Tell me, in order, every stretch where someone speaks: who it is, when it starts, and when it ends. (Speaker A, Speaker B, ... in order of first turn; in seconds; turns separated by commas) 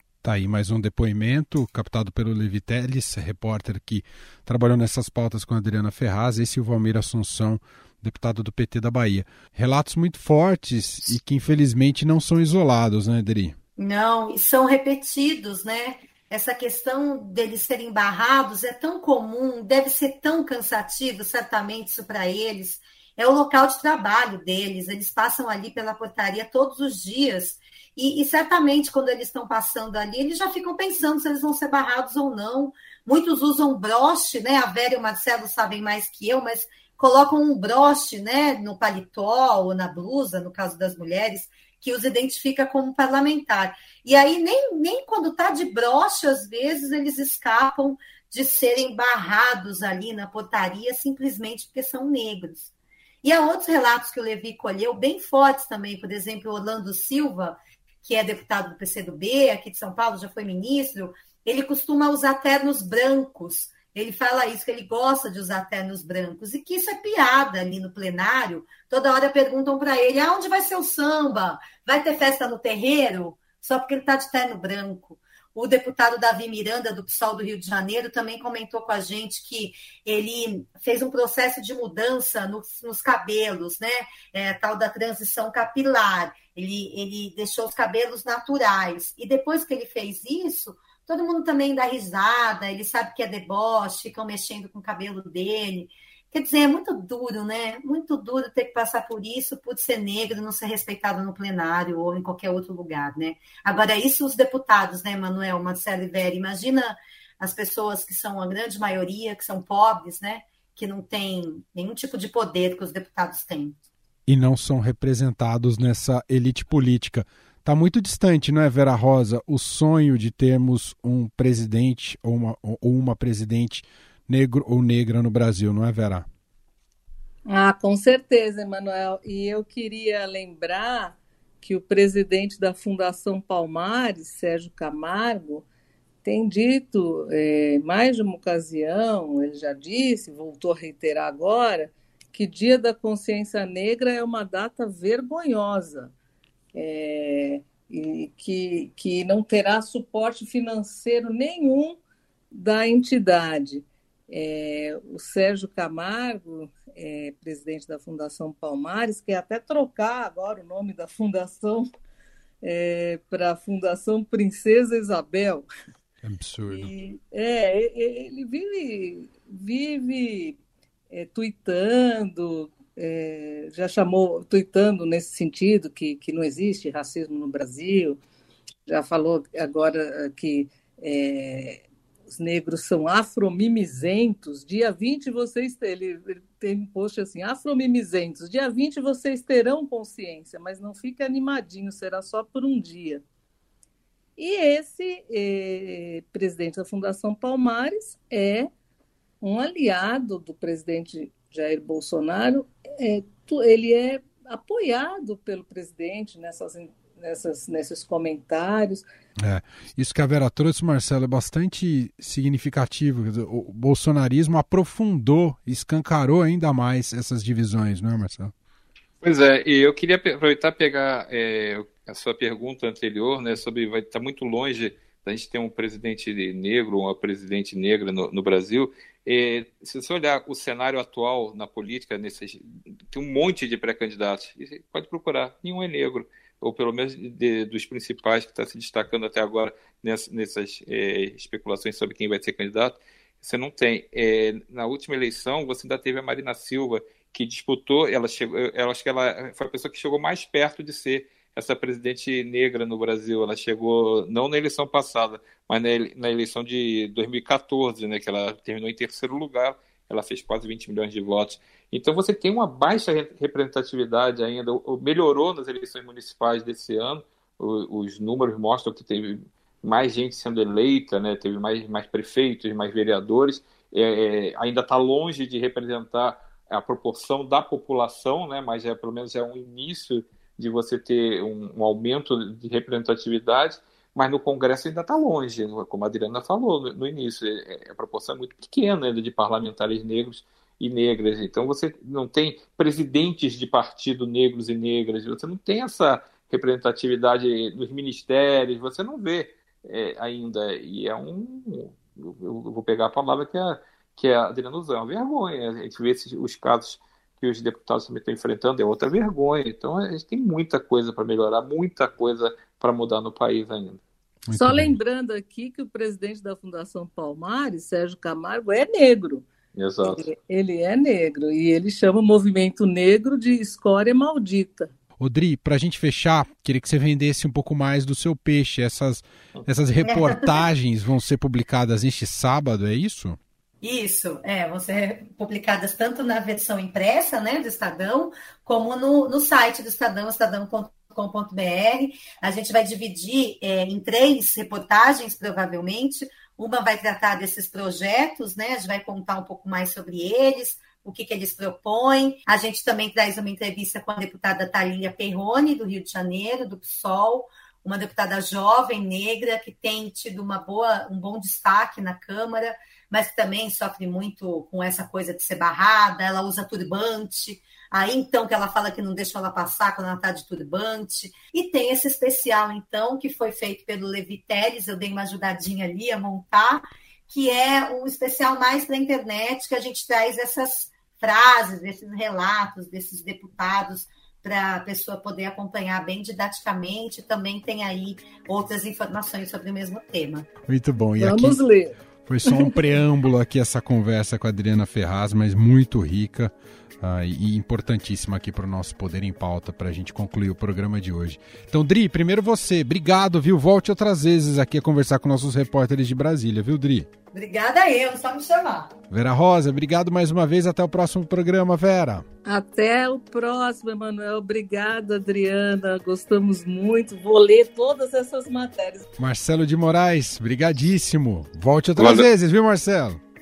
Speaker A: 0.2-13.6, Speaker B: 13.8-52.7, Speaker B: 53.2-113.8, Speaker A: 114.3-126.3, Speaker C: 127.5-135.6, Speaker C: 136.2-146.1, Speaker C: 146.7-152.0, Speaker C: 152.5-161.9, Speaker C: 162.6-165.7, Speaker A: 166.2-166.9, Speaker C: 166.6-170.6, Speaker C: 171.1-178.2, Speaker C: 178.9-193.2, Speaker C: 194.4-198.7, Speaker C: 199.4-209.0, Speaker A: 209.4-218.5, Speaker D: 219.2-314.0, Speaker A: 314.5-314.9, Speaker C: 314.5-319.4, Speaker D: 319.7-320.2, Speaker C: 320.0-324.9, Speaker A: 325.2-333.4, Speaker B: 330.0-330.6, Speaker B: 333.8-390.5, Speaker A: 390.7-391.6, Speaker C: 391.2-391.9, Speaker A: 392.2-407.1, Speaker C: 392.5-392.7, Speaker B: 407.3-408.9, Speaker A: 409.1-412.2, Speaker C: 412.4-419.1, Speaker A: 419.2-423.2, Speaker D: 422.0-422.3